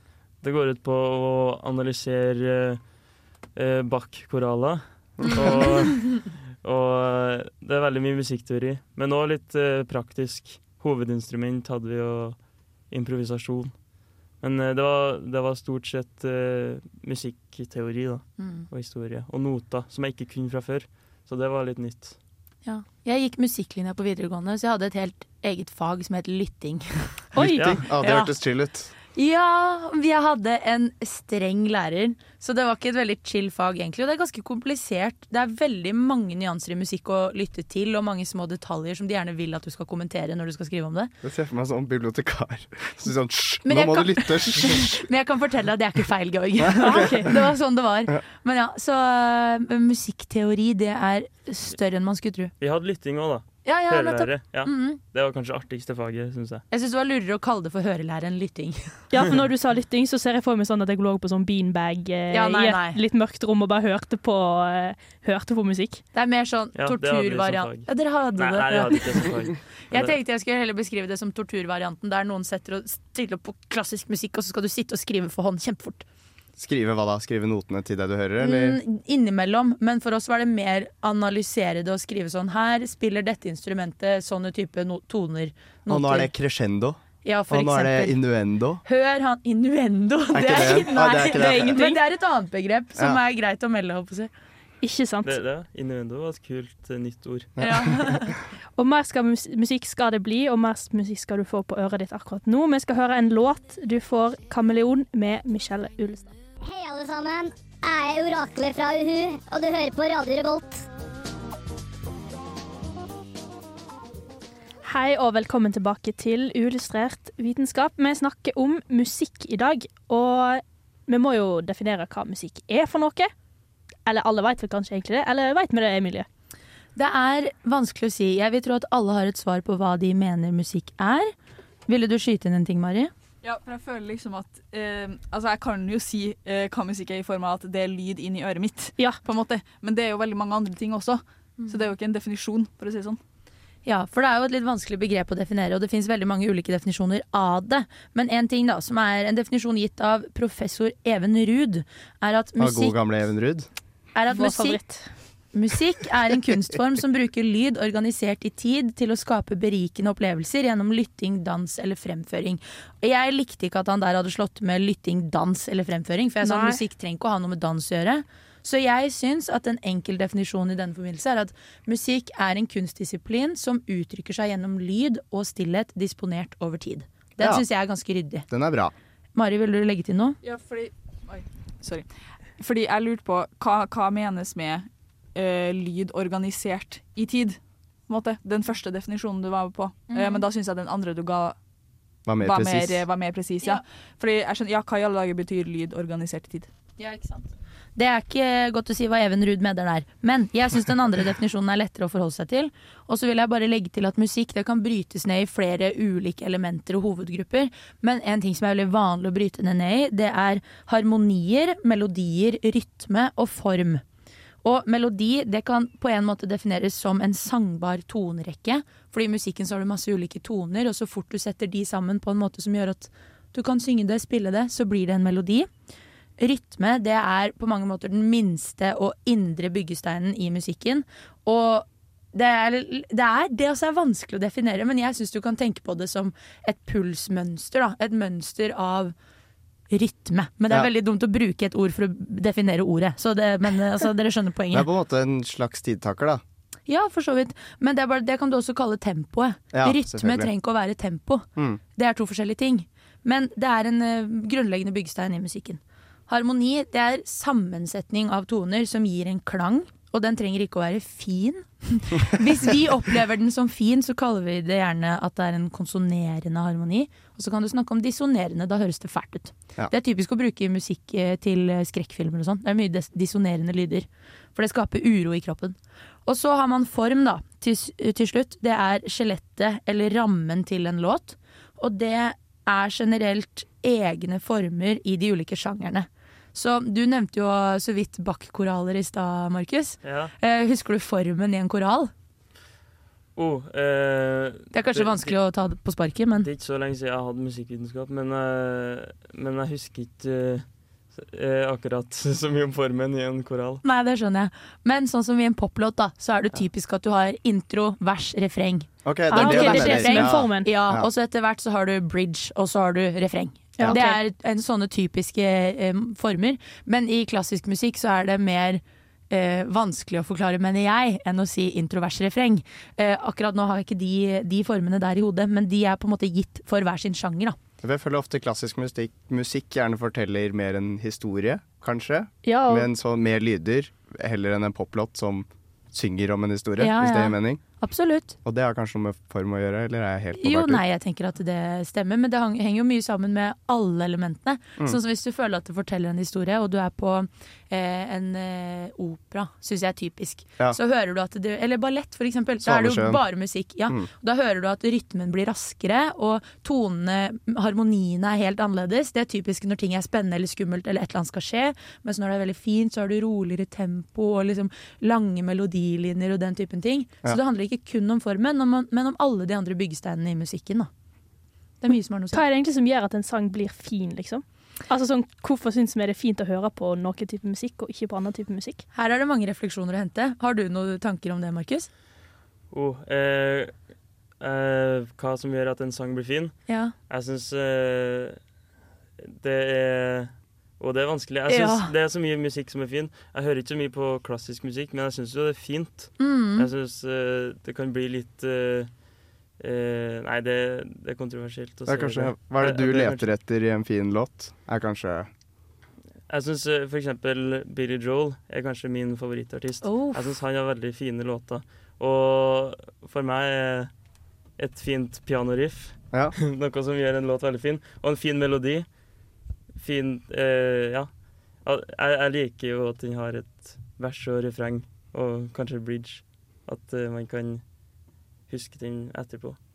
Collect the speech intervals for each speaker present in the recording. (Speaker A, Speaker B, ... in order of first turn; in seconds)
Speaker A: 0.4-2.8, 3.5-12.4, 12.9-13.7, 14.4-22.2, 52.6-56.6, 66.8-70.2, 95.2-97.5, 290.0-290.3, 293.4-295.4, 296.4-303.8, 382.7-383.7, 384.4-386.6, 387.1-388.4, 389.2-398.9, 399.6-403.3, 406.3-413.9, 414.6-418.9, 419.8-421.1, 421.6-427.6, 428.5-429.6
Speaker B: 5.2-5.7, 27.4-28.9, 41.2-45.0, 46.7-47.2, 76.6-78.8, 85.9-88.8, 90.3-91.8, 97.6-98.3, 152.6-153.7, 177.4-177.7, 178.5-178.9, 192.3-193.1, 244.7-246.4, 249.7-250.5, 309.1-311.1, 327.8-337.6, 338.4-340.8, 352.6-353.2, 401.9-405.3
Speaker C: 18.4-18.7, 22.6-28.3, 29.1-41.1, 43.7-52.5, 53.6-55.0, 56.7-58.9, 62.3-63.0, 66.1-76.1, 78.4-86.3, 87.2-88.2, 88.8-94.3, 97.6-98.4, 127.0-131.3, 131.9-133.1, 141.6-141.9, 143.8-153.2, 154.2-155.0, 155.5-178.5, 179.3-180.4, 190.1-190.5, 197.0-214.0, 214.6-225.7, 226.4-239.2, 239.9-244.9, 246.9-292.1, 294.7-296.5, 303.8-327.6, 336.8-338.4, 340.4-370.9, 371.8-372.4, 378.9-381.9, 386.7-386.9, 391.5-391.9, 396.2-396.7, 409.8-410.3
Speaker D: 27.4-27.7, 46.8-47.3, 59.1-66.0, 94.8-95.4, 98.8-106.3, 114.8-123.3, 124.1-126.3, 154.3-155.1, 166.4-166.8, 309.3-310.7, 313.8-314.2, 332.4-332.9, 372.3-378.9
Speaker E: 91.4-91.7, 133.4-143.2, 180.4-182.1, 182.6-191.6, 192.4-196.7
Speaker F: 106.6-110.8